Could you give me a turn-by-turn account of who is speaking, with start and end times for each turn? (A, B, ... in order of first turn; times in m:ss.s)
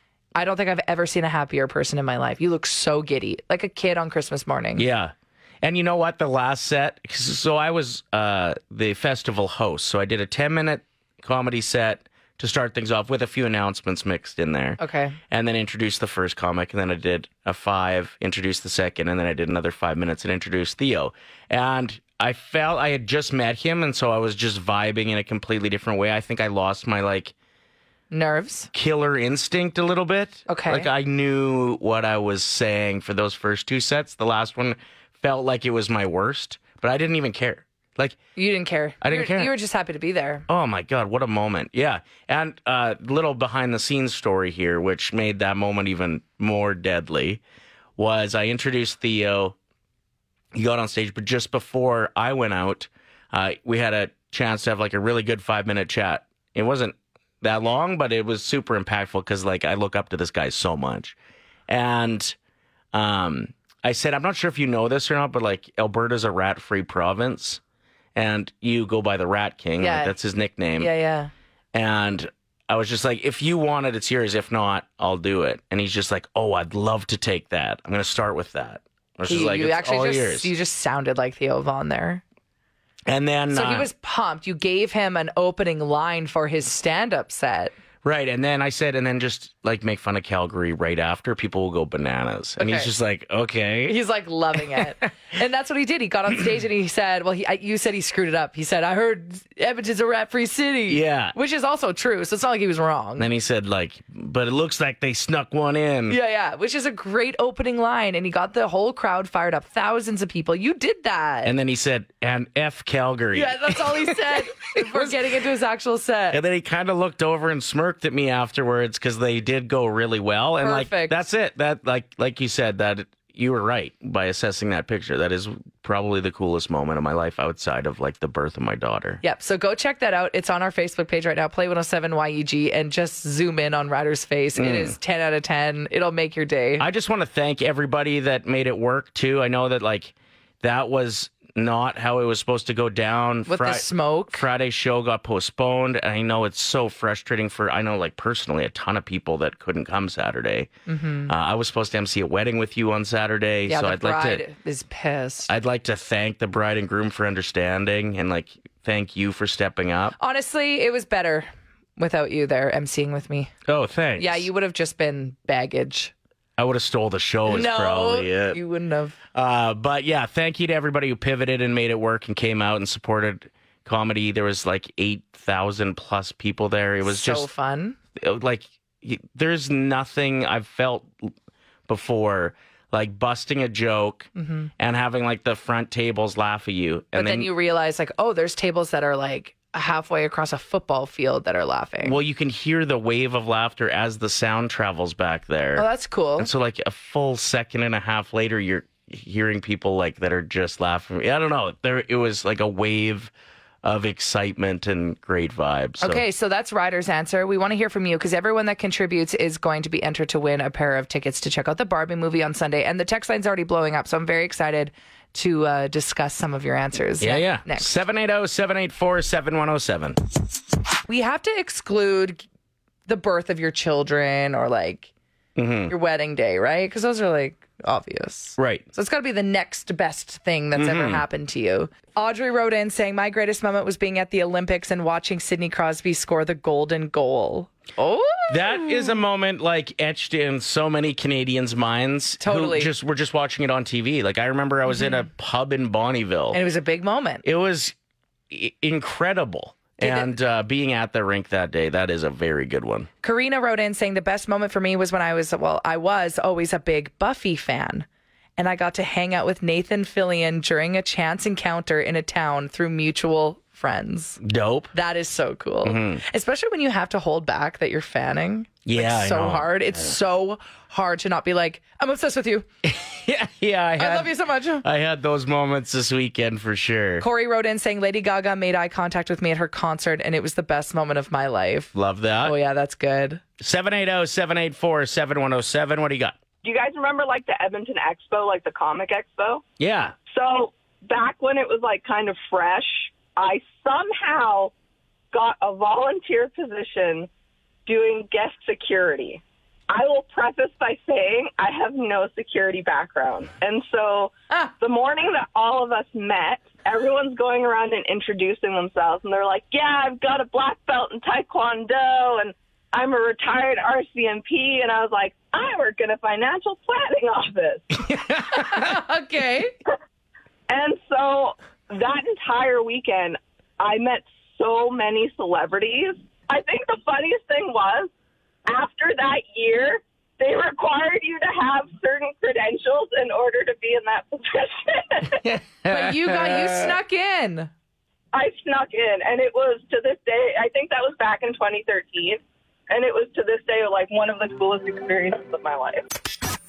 0:00.4-0:04.9 A
0:04.8-0:27.3 B
0:14.8-0:15.2 A
0:28.1-0:28.7 A
0:28.7-0:38.2 B
0:30.5-0:30.9 A
0:38.4-0:40.5 A
0:39.0-0:39.5 B
0:40.5-0:47.4 B
0:48.0-0:49.6 B
0:50.5-1:01.2 B
1:01.7-1:02.4 B
1:02.9-1:07.6 B
1:08.2-1:10.9 B
1:09.8-1:10.2 A
1:10.8-1:11.3 A
1:11.7-1:20.5 B
1:19.3-1:22.2 A
1:23.1-1:23.9 B
1:23.5-1:27.7 A
1:28.0-1:34.0 B
1:32.6-1:32.9 A
1:33.9-1:43.3 A
1:40.9-1:41.4 B
1:43.2-1:46.2 B
1:46.1-1:51.5 A
1:51.4-1:55.2 B
1:53.3-1:56.4 A
1:56.3-2:09.2 B
2:00.6-2:01.2 A
2:09.2-2:16.8 A
2:14.6-2:15.0 B
2:16.8-2:30.7 B
2:23.5-2:24.5 A
2:30.9-2:31.3 A
2:31.3-2:34.4 B
2:33.7-2:35.5 A
2:35.5-2:40.2 B
2:40.2-2:43.5 A
2:43.7-2:44.5 B
2:44.2-2:46.1 A
2:46.6-2:48.6 B
2:47.5-2:49.2 A
2:49.3-2:57.5 B
2:57.0-2:58.0 A
2:58.2-3:01.3 B
3:01.9-3:07.5 B
3:04.4-3:04.7 A
3:07.2-3:12.2 A
3:12.0-3:23.3 B
3:15.8-3:16.5 A
3:23.8-3:26.2 B
3:26.0-3:37.9 A
3:37.2-3:40.2 B
3:41.1-3:42.4 A
3:43.1-3:45.1 A
3:45.6-3:45.9 B
3:45.9-3:59.2 A
3:48.6-3:48.8 B
3:50.8-3:51.2 B
3:58.5-4:06.6 B
4:02.4-4:02.9 A
4:06.5-4:07.4 A
4:07.4-4:08.0 B
4:08.5-4:13.1 B
4:10.0-4:10.3 A
4:13.2-4:18.1 A
4:18.6-4:24.4 A
4:24.4-4:24.9 B
4:24.9-4:32.7 A
4:25.8-4:26.2 B
4:28.8-4:30.1 B
4:32.8-4:37.3 B
4:34.0-4:34.8 A
4:37.2-4:43.4 A
4:41.9-4:42.6 B
4:43.6-4:46.4 B
4:46.6-4:49.6 C
4:49.8-4:50.2 B
4:50.3-4:54.7 C
4:55.3-4:57.3 C
4:57.9-5:18.0 C
5:18.5-5:19.7 A
5:20.7-5:28.1 C
5:28.7-5:35.4 C
5:35.4-5:37.0 B
5:35.9-5:37.7 A
5:38.3-5:46.1 C